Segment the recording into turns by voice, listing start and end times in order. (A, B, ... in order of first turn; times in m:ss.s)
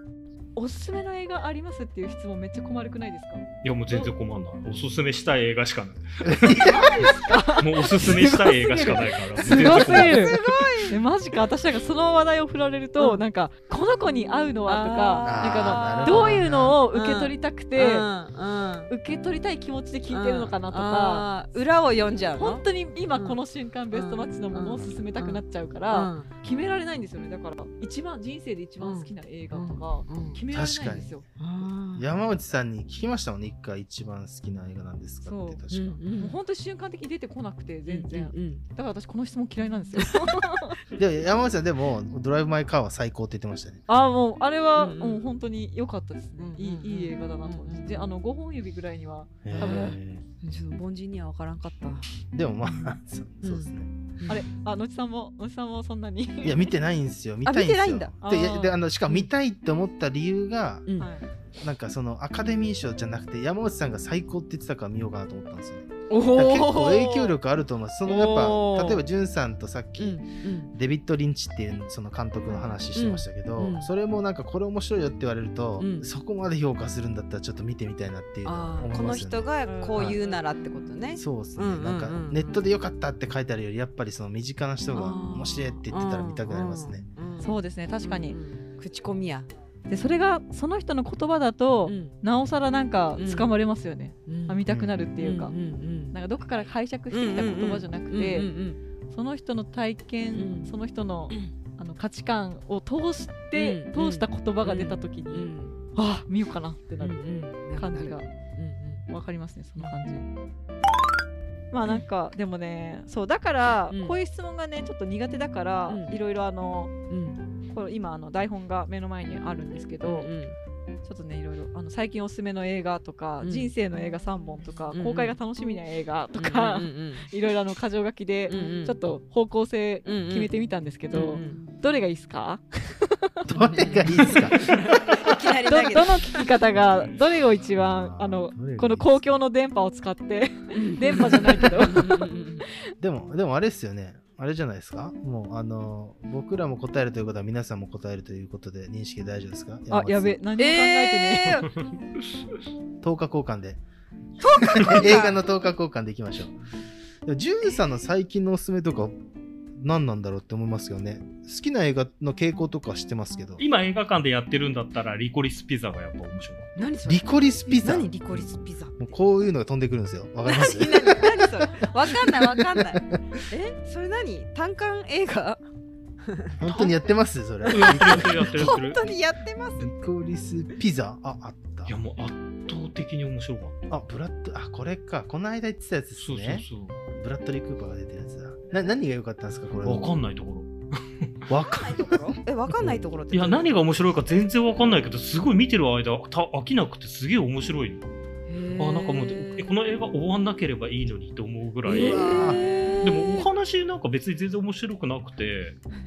0:00.6-0:04.1 A
0:03.6-0:06.8 B
0:06.2-0:07.1 C
0:06.6-0:18.1 A
0:06.7-0:07.2 D
0:07.5-0:10.5 B
0:08.7-0:09.9 C
0:09.5-0:11.0 D
0:14.7-0:18.9 D
0:15.2-0:16.8 C
0:18.9-0:21.3 A
0:20.1-0:23.4 D
0:22.4-0:31.2 A
0:23.9-0:26.3 D
0:28.8-0:30.4 D
0:30.5-0:31.1 C
0:31.4-0:32.0 D
0:31.9-0:36.0 C
0:35.2-0:35.6 A
0:35.7-0:36.4 D
0:36.1-0:40.8 A
0:37.9-0:38.6 D
0:40.9-0:43.8 C
0:43.9-0:50.0 A
0:44.8-0:45.2 D
0:46.4-0:48.1 D
0:49.4-0:50.2 C
0:49.6-0:52.1 D
0:52.3-0:53.9 C
0:52.7-0:54.4 D
0:54.3-0:56.7 A
0:56.4-1:01.0 C
0:57.4-0:58.1 D
0:58.2-0:58.8 A
1:01.0-1:01.2 A
1:01.6-1:20.2 C
1:06.1-1:07.3 D
1:08.0-1:09.0 D
1:10.0-1:10.7 D
1:12.9-1:13.9 D
1:15.8-1:16.1 D
1:18.4-1:22.6 D
1:19.6-1:20.8 A
1:21.1-1:27.0 C
1:24.9-1:29.5 D
1:27.4-1:28.4 A
1:29.9-1:35.5 A
1:31.8-1:32.1 D
1:33.2-1:33.5 D
1:34.3-1:34.6 D
1:34.7-1:35.1 C
1:35.2-1:36.1 D
1:36.1-1:38.5 A
1:37.1-1:38.8 D
1:39.1-1:48.3 A
1:40.3-1:40.7 D
1:43.5-1:45.8 D
1:47.0-1:49.0 D
1:49.1-1:50.3 A
1:49.8-1:50.2 D
1:51.7-1:56.9 A
1:53.9-1:54.2 D
1:55.9-1:56.2 D
1:57.1-1:57.4 D
1:57.7-2:00.3 A
2:00.0-2:00.6 D
2:01.0-2:13.3 A
2:03.4-2:03.7 D
2:04.9-2:05.4 D
2:06.4-2:07.3 D
2:08.5-2:09.0 D
2:10.0-2:10.5 D
2:11.1-2:11.6 D
2:13.5-2:14.7 C
2:13.5-2:16.4 D
2:13.9-2:14.3 A
2:15.6-2:22.7 A
2:17.8-2:19.4 C
2:20.7-2:22.6 D
2:23.0-2:30.4 C
2:29.9-2:31.7 A
2:30.6-2:31.7 D
2:33.0-2:33.8 C
2:34.4-2:35.4 D
2:34.7-2:36.6 C
2:37.2-2:39.1 C
2:39.8-2:43.6 C
2:43.6-2:46.7 B
2:46.8-2:49.2 D
2:47.0-2:48.4 C
2:49.0-2:53.2 C
2:50.4-2:55.6 D
2:56.2-2:56.6 D
2:56.6-2:58.8 C
2:56.7-2:56.9 B
2:57.7-2:59.1 B
2:57.7-3:00.0 D
2:59.8-3:01.9 C
3:01.8-3:03.9 B
3:03.9-3:10.1 C
3:06.2-3:07.0 B
3:09.8-3:11.5 B
3:11.5-3:13.0 C
3:11.6-3:13.7 D
3:12.8-3:18.0 B
3:18.5-3:19.7 D
3:18.8-3:25.8 B
3:21.8-3:23.5 D
3:21.9-3:22.6 C